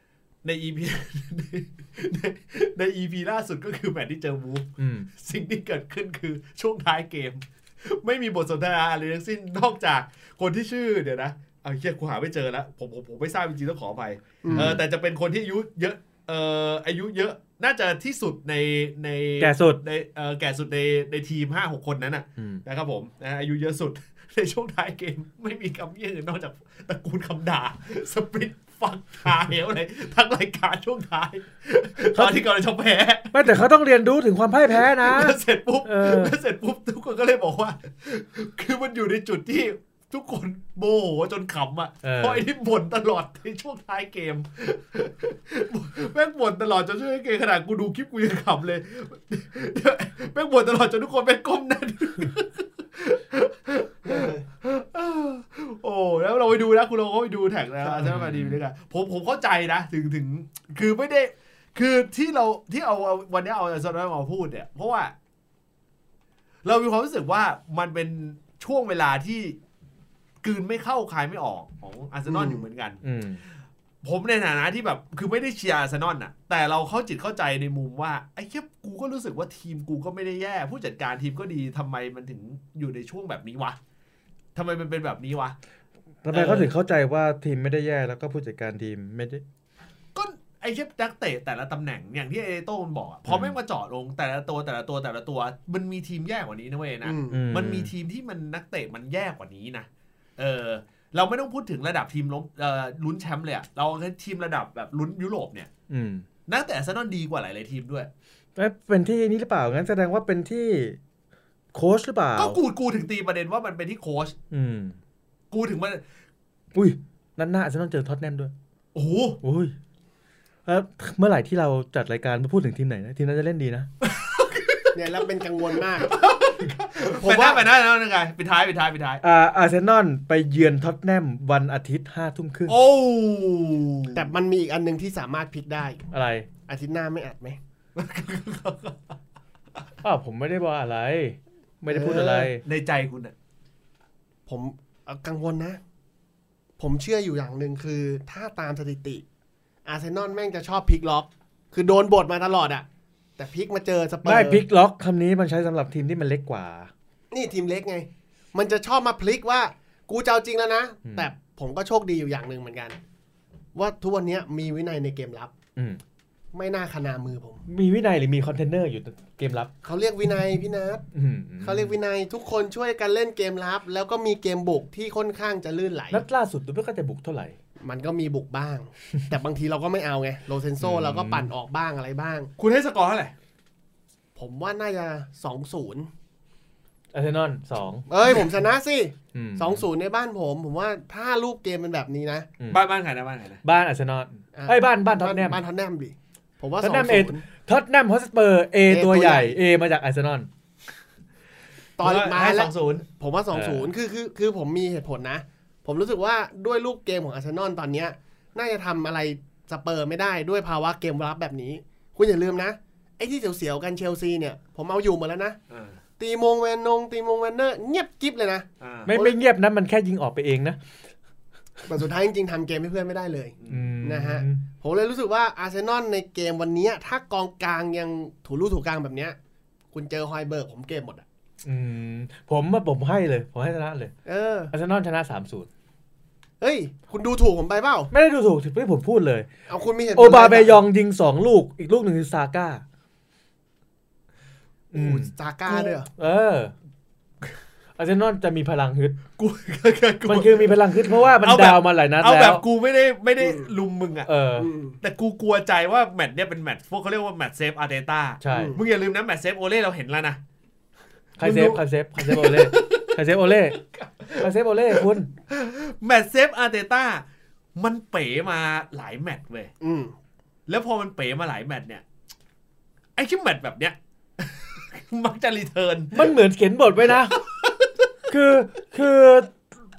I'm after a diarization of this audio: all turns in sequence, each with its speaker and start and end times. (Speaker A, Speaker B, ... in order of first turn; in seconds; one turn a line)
Speaker A: 0.4-33.5
Speaker B: 4.8-5.1
Speaker C: 14.4-14.8
Speaker B: 14.5-14.8
Speaker B: 19.4-19.8
Speaker B: 32.1-32.4
Speaker B: 33.3-36.4
Speaker A: 34.7-65.1
Speaker B: 42.0-42.5
Speaker C: 54.1-54.4
Speaker B: 58.0-58.6
Speaker A: 66.7-69.6
Speaker A: 70.4-73.0
Speaker C: 72.3-72.6
Speaker B: 73.0-73.4
Speaker A: 74.0-83.8
Speaker A: 84.5-85.6
Speaker B: 86.2-89.4
Speaker A: 86.3-86.7
Speaker A: 90.2-105.7
Speaker B: 93.3-93.6
Speaker C: 97.0-97.4
Speaker B: 97.3-97.9
Speaker B: 105.9-106.3
Speaker A: 106.5-108.1
Speaker B: 108.6-111.0
Speaker B: 111.7-112.6
Speaker A: 112.4-114.3
Speaker B: 114.5-115.0
Speaker A: 115.5-116.0
Speaker B: 116.8-118.5
Speaker A: 118.9-119.4
Speaker B: 119.4-119.7
Speaker B: 120.7-123.9
Speaker A: 124.0-125.0
Speaker C: 124.9-126.1
Speaker A: 125.9-129.2
Speaker C: 127.2-127.7
Speaker B: 129.2-132.8
Speaker A: 132.7-134.3
Speaker C: 134.1-136.1
Speaker B: 136.1-136.5
Speaker C: 136.7-137.6
Speaker A: 138.0-139.2
Speaker B: 140.0-142.6
Speaker C: 141.9-142.5
Speaker A: 142.6-143.3
Speaker C: 144.5-145.8
Speaker C: 146.8-149.2
Speaker C: 149.8-152.9
Speaker C: 153.4-154.6
Speaker B: 154.2-156.9
Speaker C: 157.3-163.0
Speaker C: 163.8-165.5
Speaker B: 165.8-166.0
Speaker C: 166.5-167.6
Speaker B: 167.7-169.7
Speaker C: 169.8-171.0
Speaker B: 171.1-171.9
Speaker C: 171.6-176.2
Speaker B: 176.1-177.6
Speaker C: 177.8-182.5
Speaker B: 180.8-181.5
Speaker A: 182.6-183.3
Speaker C: 184.4-186.1
Speaker B: 187.1-188.1
Speaker C: 188.1-192.5
Speaker B: 189.3-189.8
Speaker A: 192.7-193.6
Speaker B: 193.6-195.6
Speaker C: 194.5-197.4
Speaker B: 196.8-200.5
Speaker C: 198.9-199.6
Speaker C: 202.0-215.6
Speaker A: 202.0-203.1
Speaker B: 203.5-203.9
Speaker A: 215.7-216.0
Speaker C: 216.2-219.4
Speaker A: 218.8-219.1
Speaker B: 219.1-220.8
Speaker C: 221.8-229.4
Speaker A: 223.6-223.9
Speaker B: 223.7-224.6
Speaker C: 229.9-231.3
Speaker B: 231.7-234.1
Speaker C: 234.2-234.7
Speaker B: 234.7-235.7
Speaker C: 236.6-238.1
Speaker B: 238.1-239.5
Speaker C: 239.7-240.8
Speaker B: 240.2-242.8
Speaker B: 244.9-245.3
Speaker C: 244.9-246.1
Speaker B: 246.1-246.7
Speaker B: 248.0-249.2
Speaker A: 249.4-254.3
Speaker B: 250.3-252.6
Speaker C: 253.4-253.7
Speaker B: 254.3-254.7
Speaker C: 254.6-255.0
Speaker A: 255.0-260.4
Speaker B: 258.4-258.8
Speaker C: 258.5-258.8
Speaker B: 261.4-263.8
Speaker A: 261.4-269.7
Speaker B: 264.4-265.3
Speaker C: 269.8-270.2
Speaker A: 270.7-272.0
Speaker A: 273.2-276.3
Speaker B: 276.1-277.4
Speaker A: 277.1-278.1
Speaker B: 278.3-279.6